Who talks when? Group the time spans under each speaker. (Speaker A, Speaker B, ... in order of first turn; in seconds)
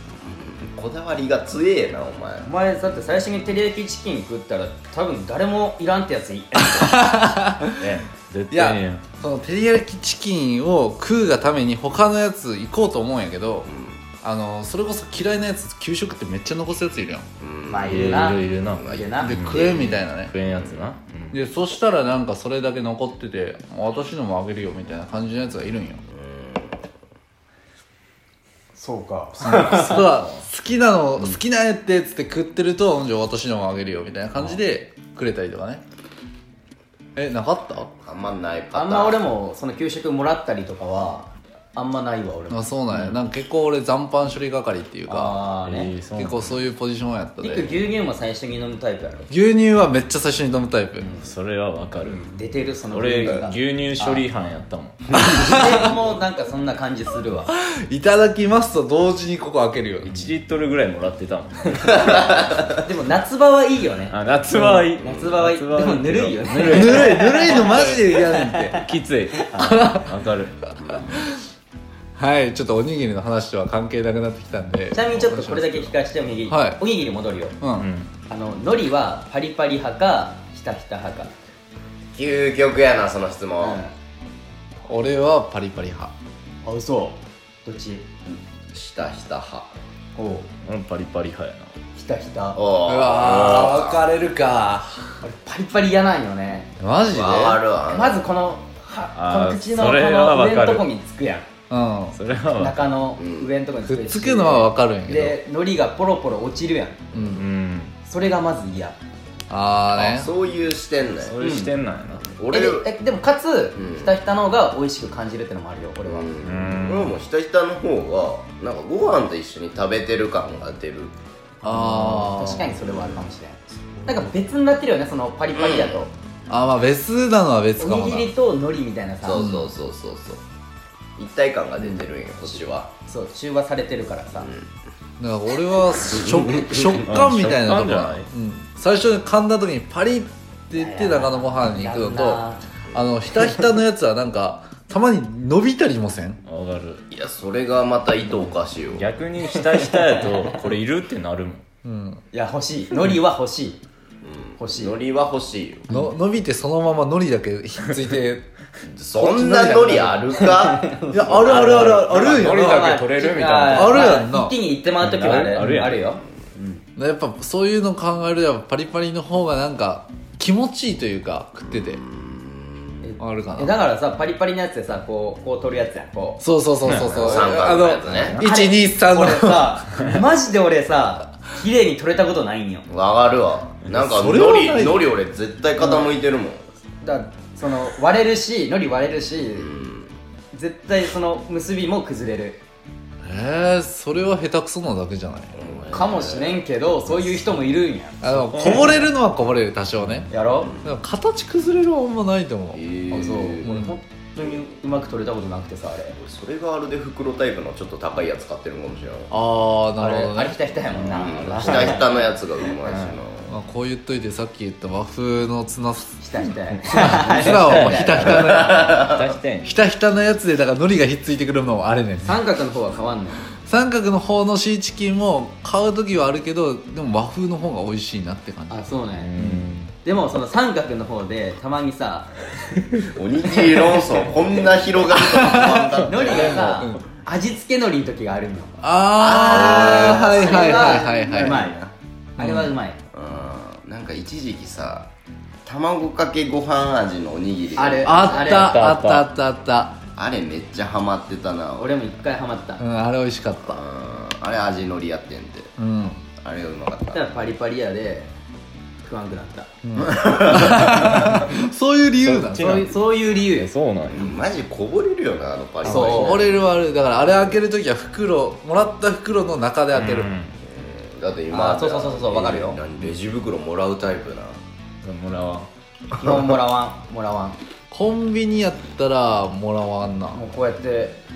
Speaker A: 0.2-2.5, 13.7-14.0, 17.4-20.0, 20.6-20.9, 26.1-26.8, 38.0-39.2, 62.0-62.6, 65.0-65.4, 70.8-71.1, 82.1-83.8, 88.3-89.7, 92.5-94.0, 97.1-98.2, 103.2-103.5, 107.1-107.5, 109.9-111.4, 112.2-112.9, 113.8-114.2, 116.0-121.1, 122.8-123.3, 125.5-126.1, 129.2-130.4, 131.2-132.9, 134.4-134.7, 136.1-136.8, 147.1-149.1, 154.2-155.9, 158.9-162.0, 171.7-173.1, 177.2-178.4, 182.9-186.7, 189.6-190.1, 195.6-196.7, 200.6-200.9, 202.7-203.7, 206.1-209.3, 210.9-213.6, 218.2-219.2, 233.1-236.9, 239.2-241.9, 243.1-245.1, 245.7-248.7, 250.2-251.9, 253.6-255.7, 256.4-257.2, 260.0-261.1, 264.1-266.7, 270.7-274.6
Speaker B: 2.4-7.1, 7.8-8.0, 17.7-19.4, 28.8-30.1, 38.7-42.6, 45.1-45.9, 47.4-49.3, 52.0-54.3, 55.2-57.5, 62.9-64.2, 64.9-68.8, 74.9-77.6, 78.3-81.3, 83.6-83.9, 86.6-88.1, 90.2-90.5, 92.0-92.6, 95.2-96.7, 97.9-101.5, 102.5-107.0, 108.0-109.0, 111.4-111.7, 112.5-116.3, 121.6-126.1, 127.8-129.5, 131.8-134.5, 140.7-142.6, 149.9-150.4, 152.3-153.8, 154.6-154.9, 160.7-166.8, 173.0-176.4, 178.4-182.9, 185.8-186.2, 187.0-189.7, 190.5-192.6, 195.9-198.8, 200.3-200.7, 203.1-206.2, 210.0-212.2, 216.2-218.5, 222.2-223.4, 228.7-229.3, 230.0-232.4, 236.0-238.8, 239.4-241.8, 242.4-243.0, 247.8-248.7, 251.8-252.8, 257.1-258.3, 259.0-259.7, 262.5-263.7, 265.8-266.5, 271.5-272.8, 276.2-277.6, 280.3-281.2
Speaker C: 6.6-7.8, 8.5-13.7, 14.2-17.3, 19.2-20.4, 21.3-26.0, 29.4-35.8, 37.2-37.9, 42.5-45.5, 46.1-47.8, 49.3-51.1, 55.2-55.9, 57.5-60.3, 64.6-64.8, 66.6-68.8, 69.6-70.1, 71.1-71.4, 72.2-76.0, 76.5-76.8, 77.6-77.9, 84.8-86.1, 92.9-95.2, 96.8-97.6, 101.7-102.2, 103.8-105.4, 107.1-107.4, 109.5-110.3, 121.6-122.7, 126.5-128.3, 129.3-129.7, 135.2-146.4, 151.8-152.2, 155.9-158.5, 159.2-160.3, 161.1-162.9, 163.7-165.8, 167.0-172.0, 173.2-173.8, 176.4-179.9, 183.9-185.1, 193.2-195.8, 198.2-200.3, 200.8-202.8, 203.6-204.0, 209.3-210.6, 213.5-216.2, 216.8-219.1, 219.6-222.4, 223.6-228.9, 235.2-235.9, 236.6-237.0, 238.8-241.7, 242.4-242.8, 248.0-250.0, 252.8-253.8, 255.8-256.2, 259.8-262.9, 265.8-270.3, 277.9-280.4
Speaker D: 8.3-9.0, 17.9-21.4, 45.6-46.5, 51.2-52.3, 52.9-55.1, 60.0-62.4, 64.1-68.0, 68.8-70.8, 77.8-78.1, 90.6-91.7, 93.2-93.7, 99.2-100.9, 102.1-102.8, 107.3-108.0, 111.2-112.3, 116.4-117.2, 137.0-138.3, 146.4-147.1, 148.9-151.7, 161.3-164.2, 165.0-166.1, 176.8-177.4, 178.2-178.4, 212.8-213.2, 216.9-218.1, 219.0-219.7, 229.2-229.9, 248.6-249.3, 262.2-264.4, 269.9-270.6, 275.0-275.7